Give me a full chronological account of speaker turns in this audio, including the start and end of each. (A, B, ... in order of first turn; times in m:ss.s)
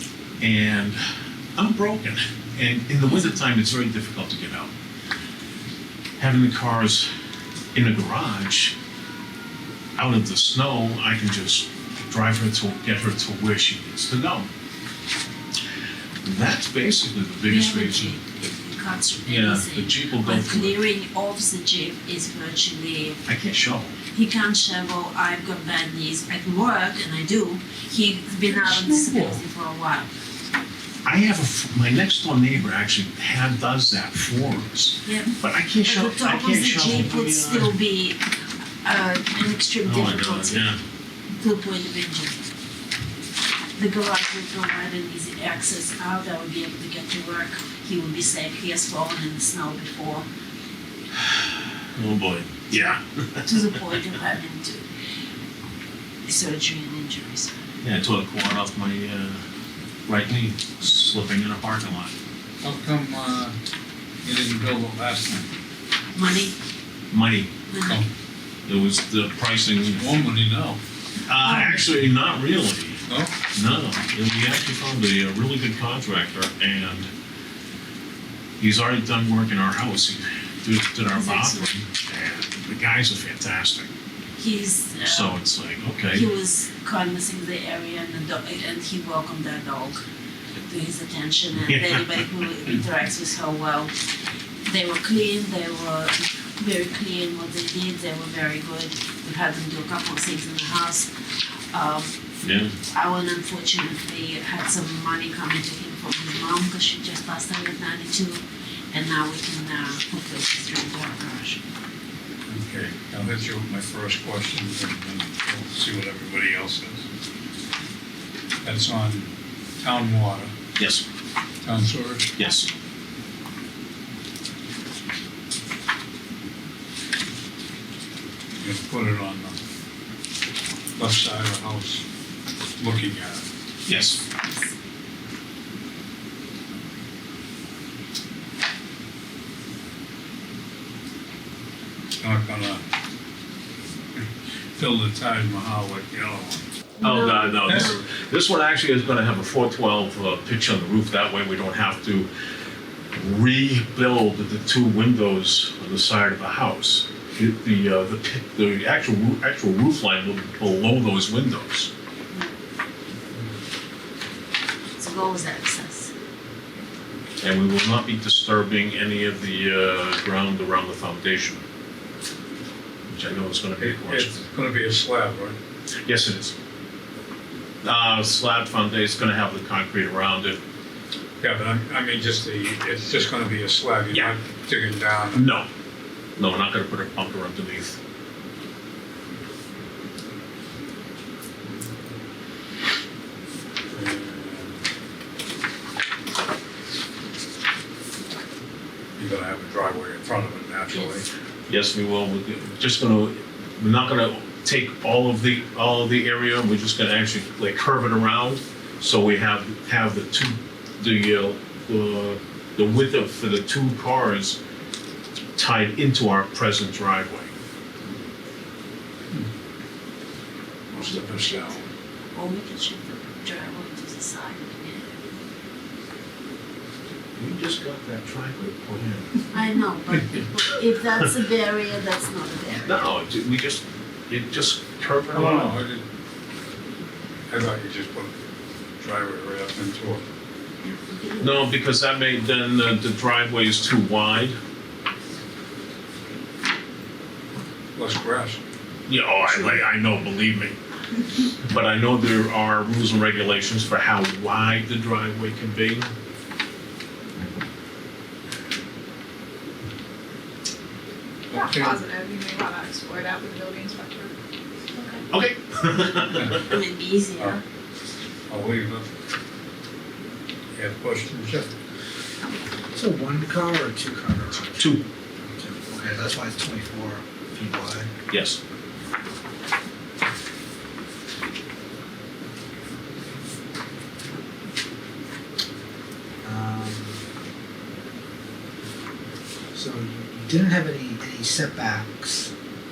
0:00.4-0:01.0 A
0:01.5-0:04.7 A
0:06.2-0:07.1 A
0:07.7-0:08.8 A
0:10.0-0:14.5 A
0:16.2-0:18.1 A
0:17.4-0:23.2 B
0:19.2-0:20.8 A
0:23.2-0:24.0 A
0:24.1-0:30.1 B
0:28.6-0:29.3 A
0:31.0-0:37.7 A
0:35.0-0:38.2 B
0:38.8-0:40.7 B
0:39.8-0:40.8 A
0:41.3-0:42.4 B
0:43.8-0:50.3 B
0:51.9-0:53.9 A
0:53.4-0:54.8 B
0:56.3-0:57.6 B
0:57.8-0:59.4 A
1:00.1-1:02.1 A
1:02.6-1:03.6 C
1:04.2-1:05.5 C
1:06.1-1:06.6 B
1:07.1-1:07.5 A
1:07.7-1:08.0 B
1:08.7-1:10.2 A
1:10.0-1:10.8 C
1:11.3-1:17.1 A
1:13.1-1:13.3 C
1:18.6-1:23.9 A
1:21.1-1:21.7 B
1:24.4-1:25.4 B
1:25.0-1:26.3 A
1:26.1-1:30.0 B
1:30.7-1:33.9 B
1:31.6-1:32.2 A
1:34.6-1:41.1 B
1:41.7-1:42.1 B
1:42.4-1:42.7 A
1:42.9-1:51.6 B
1:52.5-1:57.0 C
1:58.6-2:00.5 C
2:00.8-2:01.0 A
2:01.6-2:02.4 C
2:02.4-2:02.7 A
2:08.6-2:09.6 C
2:11.0-2:12.0 C
2:12.8-2:13.4 C
2:13.9-2:14.2 A
2:22.2-2:22.8 C
2:24.8-2:26.6 C
2:27.0-2:32.3 A
2:27.0-2:28.0 B
2:33.1-2:41.9 A
2:45.0-2:46.1 B
2:47.4-2:51.6 A
2:53.1-2:54.3 A
2:53.8-2:55.6 C
2:56.0-2:56.5 A
2:57.8-3:00.6 A
3:01.4-3:05.4 C
3:05.3-3:05.7 A
3:06.4-3:08.0 A
3:13.9-3:14.8 C
3:19.2-3:21.3 C
3:21.7-3:34.6 A
3:35.6-3:37.5 A
3:40.9-3:41.8 A
3:41.1-3:41.7 C
3:42.3-3:45.2 B
3:47.4-3:49.4 A
3:49.5-3:53.0 B
3:52.8-3:55.8 A
3:55.3-3:56.0 C
3:57.5-3:58.3 C
3:59.0-4:00.2 C
4:00.8-4:01.6 B
4:01.4-4:04.6 A
4:07.9-4:08.6 C
4:09.1-4:10.8 A
4:11.6-4:16.1 A
4:21.5-4:22.0 C
4:21.5-4:24.3 D
4:25.0-4:25.2 B
4:25.3-4:26.6 A
4:26.6-4:27.6 B
4:28.5-4:29.1 C
4:30.8-4:31.7 C
4:32.9-4:34.9 E
4:35.5-4:38.1 E
4:38.3-4:38.6 A
4:46.4-4:47.2 E
4:49.7-4:52.5 E